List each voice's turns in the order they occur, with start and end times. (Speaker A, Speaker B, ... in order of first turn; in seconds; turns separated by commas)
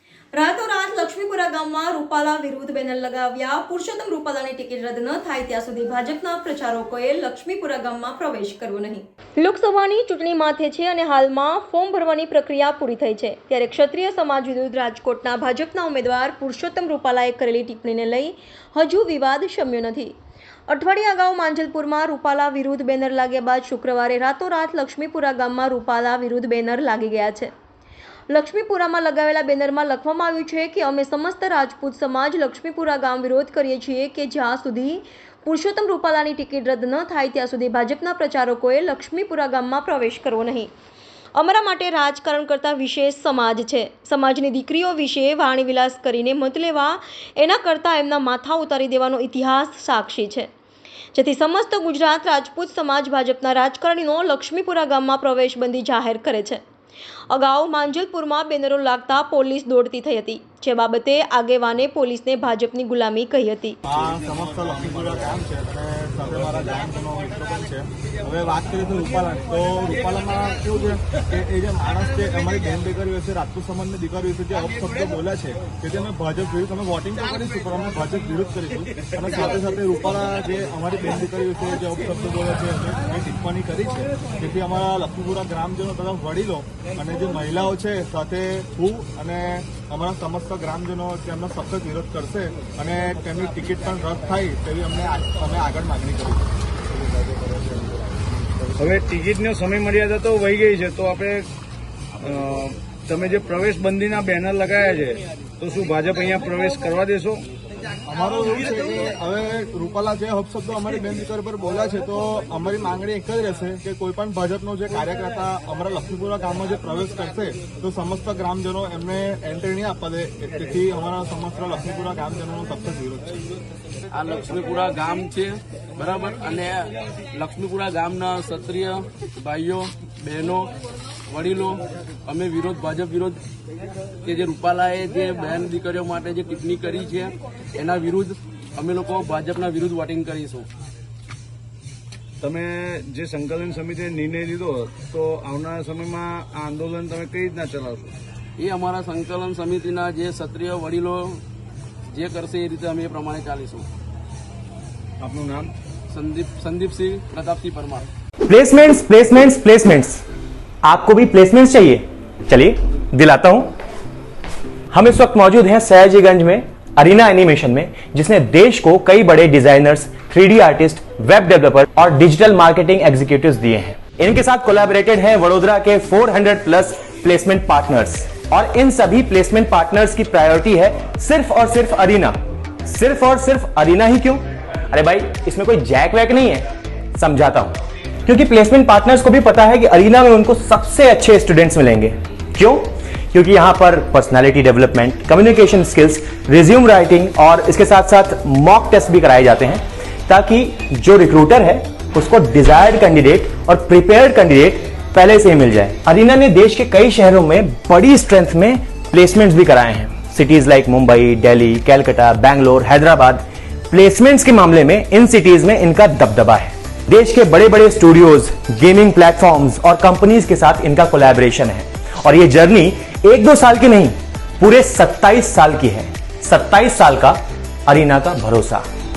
Speaker A: 0.3-20.1, Speaker A: 20.7-27.5, Speaker A: 28.3-40.7, Speaker A: 41.3-50.5, Speaker A: 51.1-56.6, Speaker A: 57.3-63.8, Speaker B: 63.9-96.5, Speaker C: 98.7-101.5, Speaker C: 102.2-107.5, Speaker B: 108.1-123.5, Speaker D: 124.1-130.7, Speaker D: 131.3-133.4, Speaker D: 134.2-140.7, Speaker C: 142.4-148.1, Speaker D: 148.6-151.4, Speaker D: 152.1-153.9, Speaker C: 155.2-155.7, Speaker D: 156.1-158.1, Speaker E: 158.5-160.2, Speaker E: 160.8-163.8, Speaker E: 164.9-228.8